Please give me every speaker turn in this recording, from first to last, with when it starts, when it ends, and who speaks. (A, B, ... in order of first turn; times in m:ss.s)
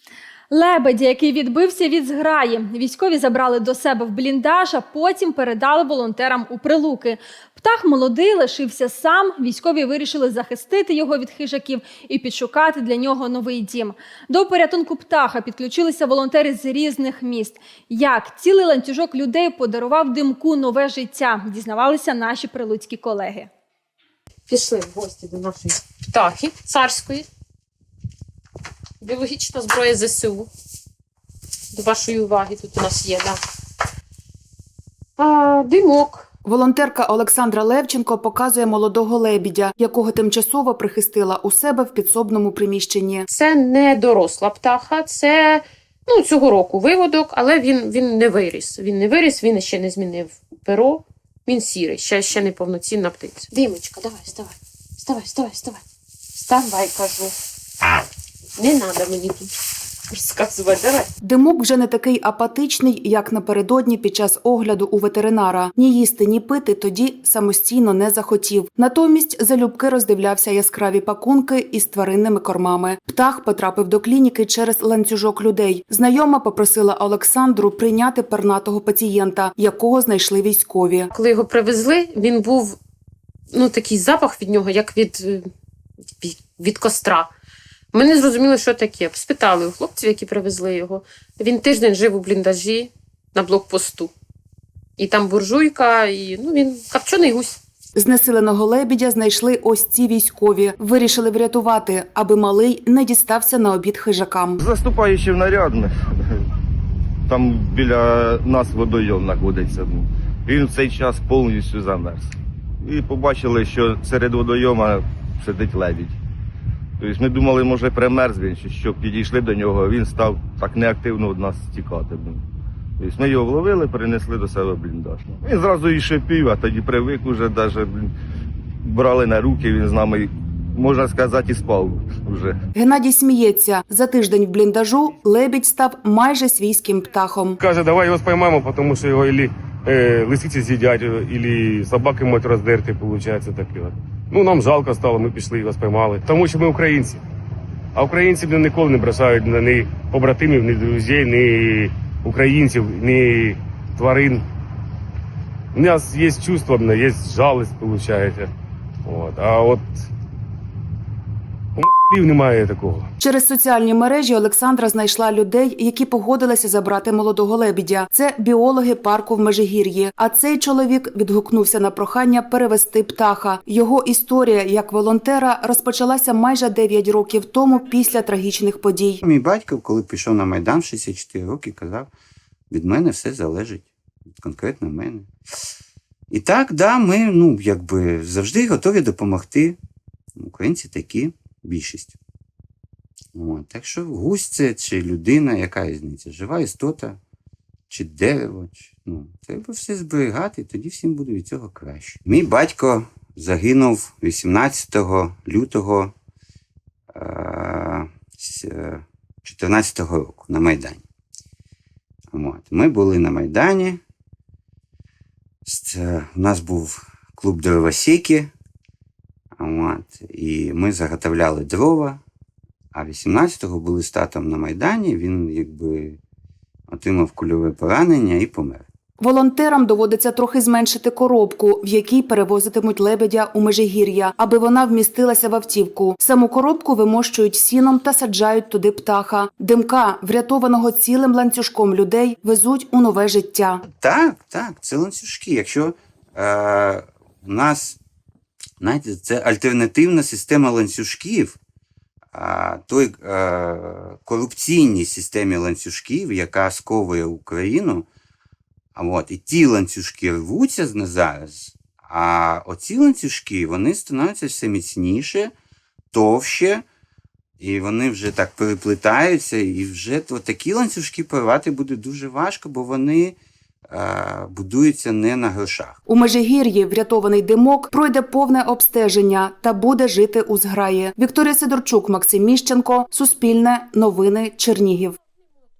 0:00.5-0:23.5 A
0:24.5-0:27.2 B
0:29.0-0:30.5 B
0:31.7-0:33.4 B
0:35.2-0:36.2 B
0:36.4-0:43.2 C
0:43.3-0:55.8 B
0:56.4-0:57.3 B
0:58.6-0:59.5 B
1:00.1-1:01.1 B
1:01.2-1:21.1 C
1:21.2-1:22.8 B
1:23.5-1:25.4 B
1:26.2-1:27.3 B
1:27.9-1:34.1 B
1:35.0-1:37.6 B
1:37.9-1:44.6 C
1:44.6-1:46.0 D
1:47.3-1:56.2 D
1:57.0-2:02.4 D
2:03.0-2:08.1 D
2:08.8-2:12.6 D
2:12.8-2:17.6 C
2:17.6-2:27.2 E
2:27.9-2:34.4 E
2:35.7-2:38.5 E
2:39.0-2:40.1 E
2:41.8-2:43.1 E
2:43.2-2:59.2 C
2:59.2-3:02.1 F
3:02.7-3:05.3 F
3:06.3-3:09.8 F
3:10.4-3:12.2 F
3:13.4-3:17.2 F
3:17.9-3:26.1 F
3:27.1-3:31.0 F
3:32.3-3:34.0 F
3:35.6-3:38.5 F
3:39.6-3:42.2 F
3:42.9-3:46.2 F
3:46.9-3:48.9 F
3:49.2-4:03.8 C
4:03.9-4:08.0 F
4:08.8-4:11.6 F
4:12.3-4:18.0 F
4:18.9-4:25.5 F
4:26.1-4:26.8 F
4:27.6-4:33.4 F
4:33.9-4:36.0 F
4:36.1-4:45.2 C